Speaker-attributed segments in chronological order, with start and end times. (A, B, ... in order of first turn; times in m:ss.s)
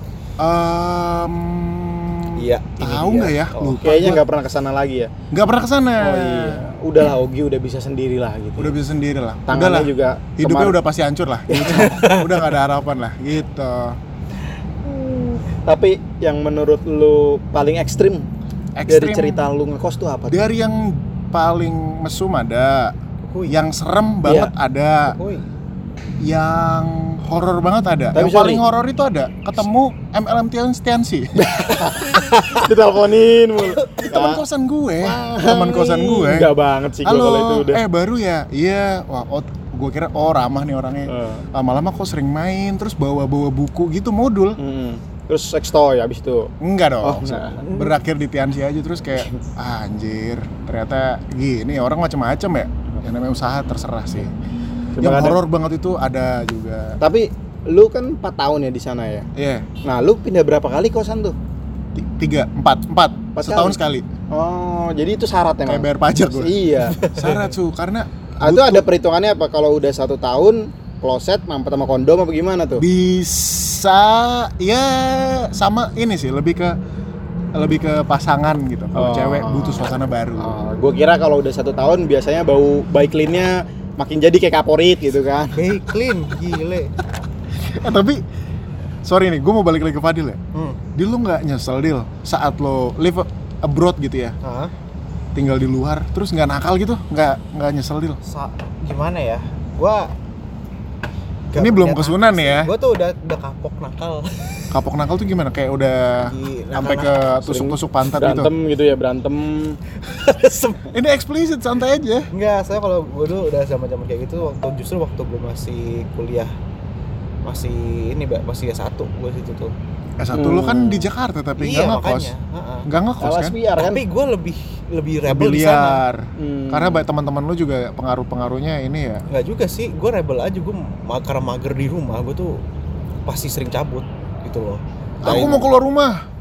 0:00.4-0:04.2 A
0:02.4-0:03.8 B
0:03.8-0:05.1 C
0:05.3-0:06.6 A
0:06.0-0:08.8 C
0:08.6-0:14.0 A
0:09.5-0:10.8 C
0:11.5-0:11.8 C
0:11.8-0:12.5 B
0:14.8-0:18.3 C
0:18.8-0:19.4 A
0:18.9-0:20.4 C
0:20.3-0:22.9 A
0:23.2-0:23.6 B
0:23.5-0:25.2 A
0:24.2-0:24.5 C
0:25.1-0:25.5 B
0:26.2-0:31.9 A
0:28.1-0:28.6 C
0:31.4-0:34.4 C
0:31.8-0:32.6 B
0:33.6-0:34.1 B
0:34.1-0:44.6 A
0:35.0-0:37.8 C
0:41.1-0:41.4 C
0:44.6-0:46.5 C
0:46.6-0:54.3 A
0:47.0-0:47.6 C
0:47.6-0:48.0 B
0:55.0-0:55.4 C
0:55.0-0:57.0 A
0:57.0-0:59.3 C
0:59.4-0:59.7 A
0:59.8-1:01.4 C
1:02.0-1:04.0 A
1:03.4-1:03.8 C
1:04.3-1:07.0 C
1:05.7-1:06.6 A
1:06.8-1:07.5 B
1:07.1-1:08.9 A
1:08.4-1:12.8 C
1:12.8-1:16.8 A
1:17.6-1:20.6 A
1:19.0-1:25.7 C
1:25.5-1:26.9 B
1:27.5-1:28.2 A
1:29.0-1:30.4 A
1:30.5-1:30.8 B
1:31.0-1:34.4 A
1:34.4-1:34.7 B
1:35.4-1:38.2 A
1:38.2-1:40.1 B
1:41.5-1:44.6 B
1:41.6-1:42.7 A
1:44.7-1:48.5 A
1:46.2-1:47.4 B
1:47.4-1:49.8 C
1:50.0-1:50.9 B
1:50.9-1:52.3 A
1:52.3-1:56.5 B
1:57.4-1:59.7 B
2:00.2-2:02.3 A
2:00.3-2:01.1 C
2:01.6-2:02.9 B
2:02.9-2:03.6 A
2:03.2-2:04.0 C
2:03.8-2:06.0 B
2:05.3-2:09.2 A
2:06.4-2:07.0 C
2:09.3-2:12.6 B
2:13.3-2:15.7 B
2:15.2-2:16.2 A